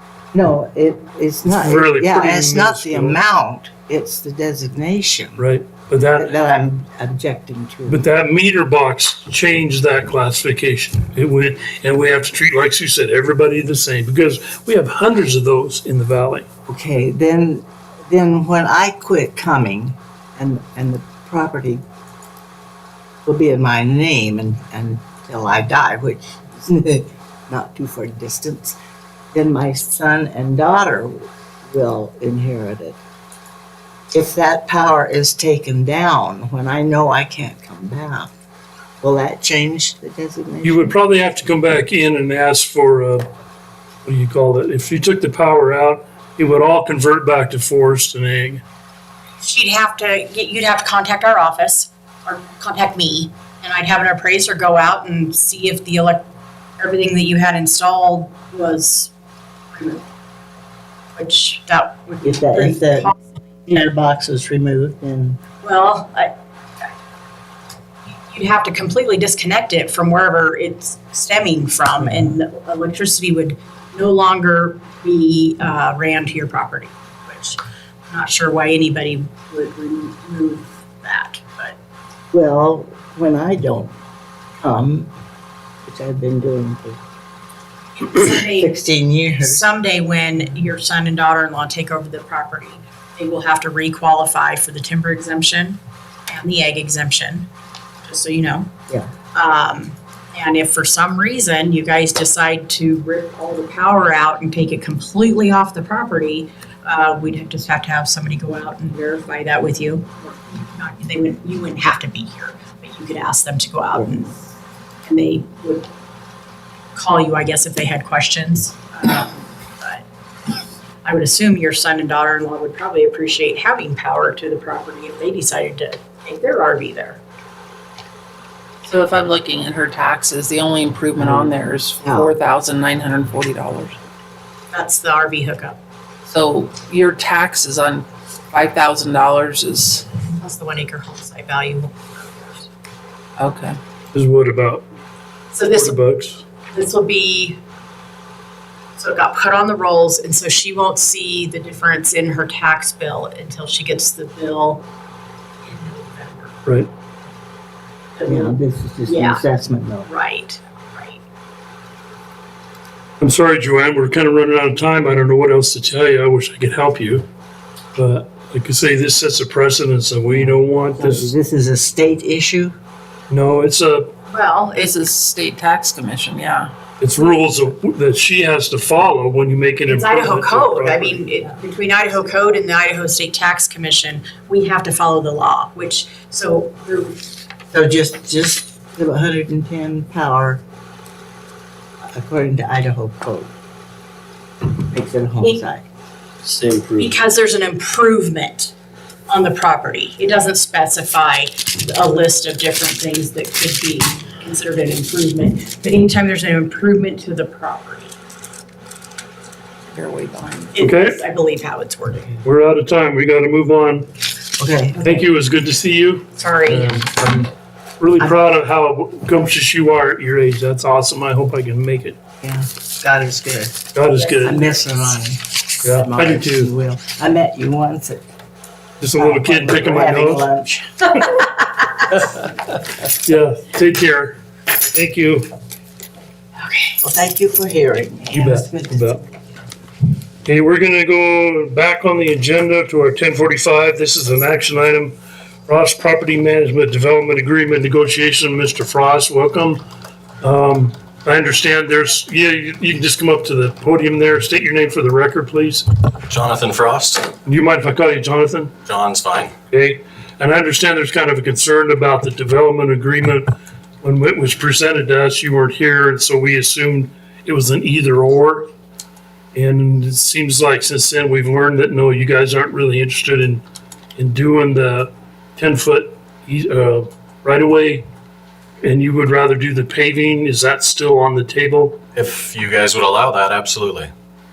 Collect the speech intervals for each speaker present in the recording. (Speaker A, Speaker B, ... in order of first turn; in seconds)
Speaker A: 0.3-5.4, 6.2-8.0, 16.7-21.8, 23.2-28.8, 29.3-33.0, 34.1-38.3, 39.0-40.9, 62.2-63.1, 63.6-65.4, 72.0-72.3, 82.3-83.9, 84.6-85.1, 85.8-87.0, 88.1-89.7, 131.2-132.3, 158.2-160.1, 170.3-172.7, 187.7-190.6, 192.1-193.5, 194.7-195.8, 209.9-210.8, 214.6-215.0, 222.4-223.8, 224.4-228.2, 229.2-231.4, 237.0-239.1
Speaker B: 1.4-3.2, 5.4-6.3, 7.9-16.4, 40.6-43.2, 44.0-48.6, 144.1-144.8, 145.7-146.4, 163.2-167.2, 167.9-171.3, 173.3-174.1, 177.0-181.2, 210.8-211.2, 212.4-214.1, 215.0-222.2, 223.9-224.6, 225.8-226.7, 229.0-230.4, 233.2-234.4, 234.9-235.5, 238.3-239.2, 240.4-245.2, 245.7-249.8, 250.4-255.8, 257.4-258.7, 259.7-263.5, 264.0-268.7, 269.5-273.6, 274.1-278.0, 278.8-282.0
Speaker C: 49.4-56.2, 56.8-59.1, 59.7-60.0, 61.1-63.1, 65.6-66.3, 68.3-77.6, 78.1-81.8, 88.1-88.7, 89.5-97.5, 98.0-98.7, 99.3-114.3, 115.0-115.9, 117.0-120.0, 121.0-127.2, 134.7-135.8, 140.3-142.7, 145.5-146.0, 146.7-147.6, 149.0-154.8, 155.6-156.5, 158.2-158.5, 159.1-159.3, 160.1-161.2, 174.3-175.1, 179.9-187.2, 197.0-198.7, 199.3-208.1, 210.7-212.3, 216.4-216.9
Speaker D: 128.8-134.0, 136.3-140.2, 143.4-143.8, 174.8-176.7
Speaker E: 256.3-257.3, 258.8-259.5, 282.1-284.1